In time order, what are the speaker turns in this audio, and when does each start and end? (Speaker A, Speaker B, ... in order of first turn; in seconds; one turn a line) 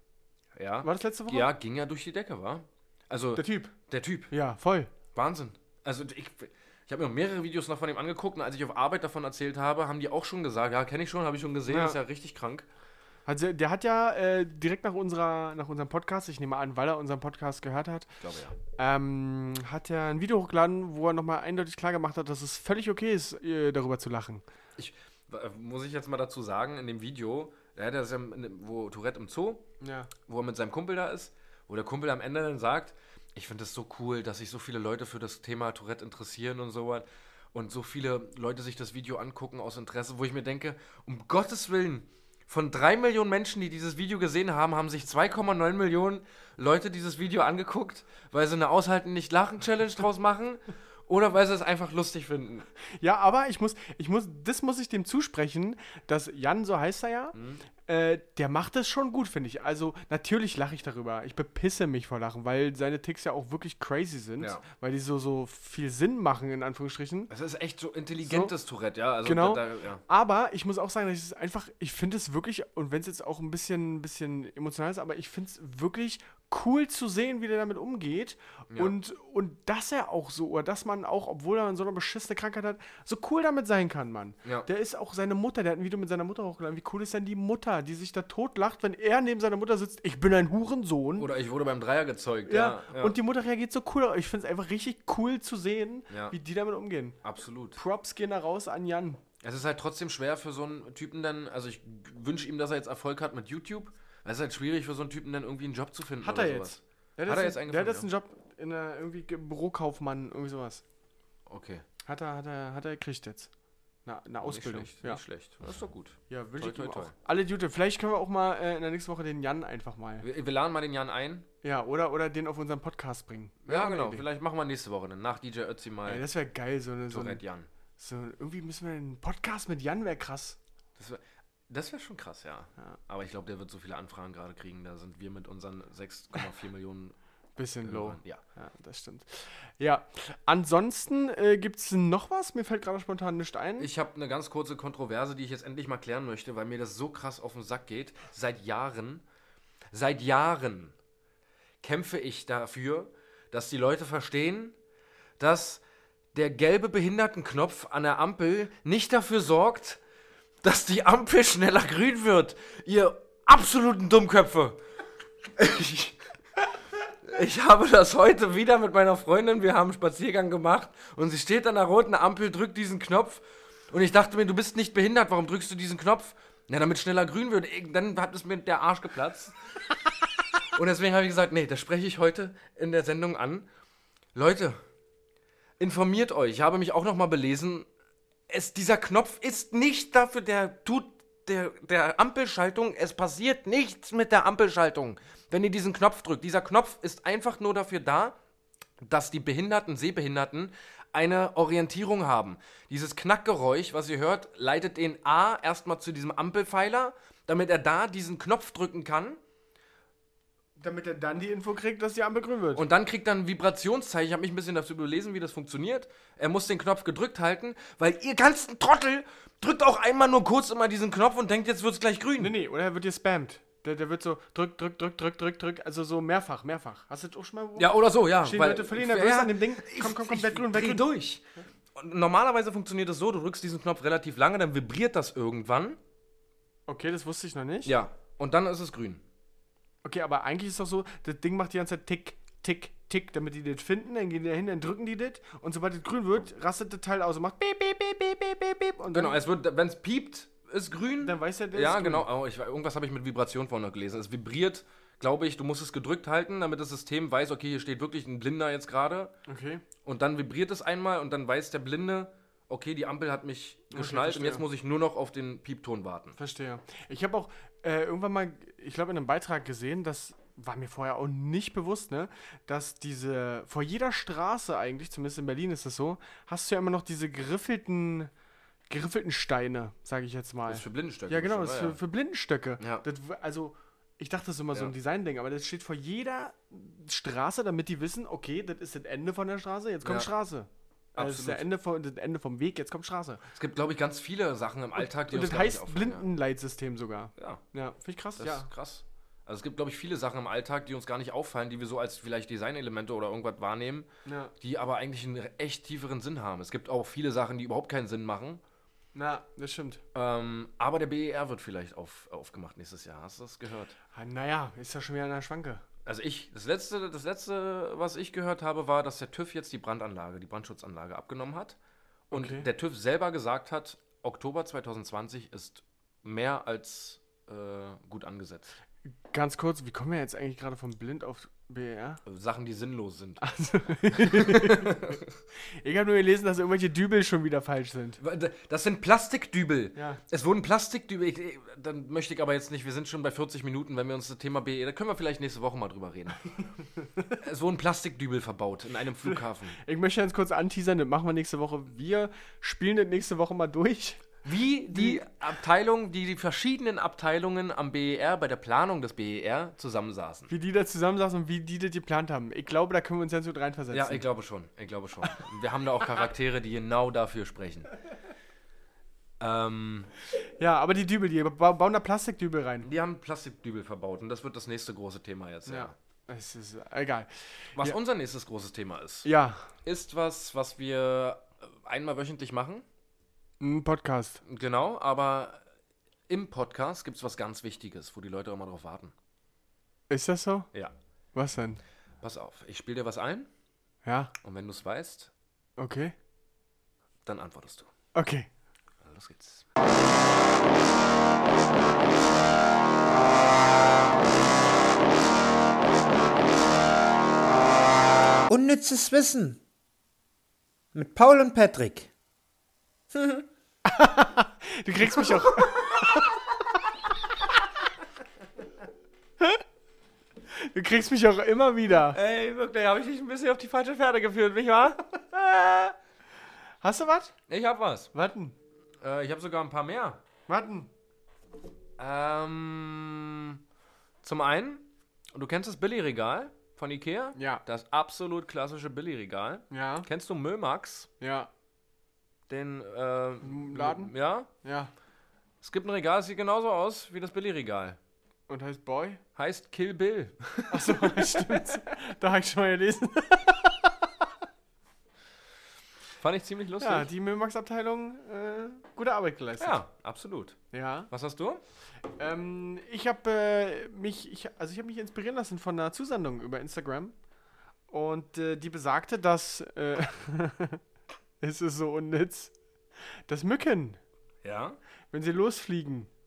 Speaker A: 0.5-4.3
Speaker B: 0.8-1.5
Speaker B: 3.3-3.7
Speaker B: 4.3-4.9
Speaker A: 5.1-12.7
Speaker B: 11.7-12.0
Speaker B: 13.2-18.2
Speaker A: 18.2-18.6
Speaker B: 18.8-24.4
Speaker A: 24.8-29.6
Speaker B: 29.8-30.1
Speaker A: 30.2-52.7
Speaker B: 53.0-67.3
Speaker A: 57.3-57.6
Speaker A: 67.3-70.0
Speaker B: 68.2-68.5
Speaker B: 69.2-91.3
Speaker A: 78.7-79.0
Speaker A: 91.2-93.2
Speaker B: 92.5-97.2
Speaker A: 96.1-96.3
Speaker A: 97.2-97.8
Speaker B: 97.7-99.2
Speaker A: 99.4-108.1
Speaker B: 106.2-110.8
Speaker A: 111.5-111.8
Speaker B: 112.0-113.5
Speaker B: 114.0-115.2
Speaker A: 114.4-117.1
Speaker B: 116.3-120.2
Speaker A: 120.2-121.5
Speaker B: 121.6-124.2
Speaker A: 123.6-126.2
Speaker B: 126.0-127.4
Speaker A: 127.1-127.7
Speaker B: 128.0-130.6
Speaker A: 131.0-137.1
Speaker B: 137.6-143.9
Speaker A: 137.8-138.4
Speaker A: 143.8-149.2
Speaker A: 149.9-150.9
Speaker A: 151.8-154.8
Speaker A: 155.4-155.8
Speaker A: 156.3-160.0
Speaker A: 160.6-164.8
Speaker A: 165.6-166.2
Speaker A: 167.2-179.5
Speaker A: 180.7-183.7
Speaker A: 184.3-184.8
Speaker A: 185.8-187.9
Speaker A: 188.5-198.3
Speaker A: 199.0-209.4
Speaker B: 210.8-212.8
Speaker A: 212.7-222.5
Speaker B: 222.4-231.1
Speaker A: 227.8-236.0
Speaker B: 236.9-237.9
Speaker A: 237.8-239.2
Speaker B: 240.0-249.4
Speaker A: 249.1-259.3
Speaker B: 251.2-252.3
Speaker B: 259.5-259.8
Speaker A: 260.0-266.4
Speaker B: 263.9-264.6
Speaker B: 266.4-278.3
Speaker B: 278.9-293.4
Speaker A: 280.7-282.0
Speaker A: 282.8-283.0
Speaker A: 290.0-290.3
Speaker A: 291.1-291.7
Speaker A: 293.5-296.2
Speaker B: 295.0-298.7
Speaker A: 297.4-297.6
Speaker A: 298.4-304.1
Speaker B: 304.2-304.5
Speaker A: 304.6-308.6
Speaker B: 309.1-310.0
Speaker A: 310.1-313.9
Speaker B: 314.1-315.8
Speaker A: 316.1-321.8
Speaker A: 322.3-328.7
Speaker B: 322.3-322.7
Speaker B: 329.3-332.2
Speaker A: 332.2-333.4
Speaker B: 333.4-335.2
Speaker A: 334.1-335.2
Speaker B: 335.8-338.2
Speaker A: 338.2-346.4
Speaker B: 339.9-340.2
Speaker A: 347.4-349.8
Speaker B: 349.2-354.2
Speaker A: 354.4-360.5
Speaker B: 354.9-355.2
Speaker B: 360.5-364.2
Speaker A: 363.9-367.9
Speaker A: 369.4-370.1
Speaker B: 370.4-372.9
Speaker A: 372.8-375.9
Speaker B: 375.6-378.0
Speaker A: 377.8-379.3
Speaker B: 379.2-379.7
Speaker A: 379.8-382.8
Speaker B: 383.6-384.4
Speaker A: 384.4-385.6
Speaker A: 386.3-389.1
Speaker B: 390.1-390.7
Speaker B: 391.3-391.8
Speaker A: 392.2-393.5
Speaker B: 394.0-394.3
Speaker A: 394.4-395.3
Speaker B: 395.8-396.1
Speaker A: 397.2-397.9
Speaker B: 398.1-398.5
Speaker A: 399.0-399.6
Speaker C: 408.5-409.6
Speaker C: 410.9-412.1
Speaker C: 413.1-413.4
Speaker B: 413.8-416.3
Speaker A: 415.2-416.3
Speaker B: 420.5-422.2
Speaker A: 422.1-425.9
Speaker B: 426.8-427.3
Speaker A: 427.5-428.1
Speaker B: 428.1-428.5
Speaker A: 429.0-430.2
Speaker B: 430.5-430.9
Speaker A: 432.0-433.6
Speaker A: 434.2-441.1
Speaker B: 437.4-437.6
Speaker B: 439.7-440.1
Speaker B: 441.2-441.5
Speaker A: 442.5-444.5
Speaker B: 443.4-444.9
Speaker A: 445.6-448.0
Speaker B: 448.5-449.2
Speaker A: 449.4-451.6
Speaker B: 450.7-454.2
Speaker A: 456.1-457.1
Speaker B: 456.8-459.8
Speaker A: 459.6-460.6
Speaker B: 460.7-461.1
Speaker A: 461.1-461.6
Speaker B: 462.2-467.1
Speaker B: 467.9-470.8
Speaker B: 471.4-472.5
Speaker B: 473.3-474.0
Speaker A: 474.4-474.8
Speaker B: 475.1-476.1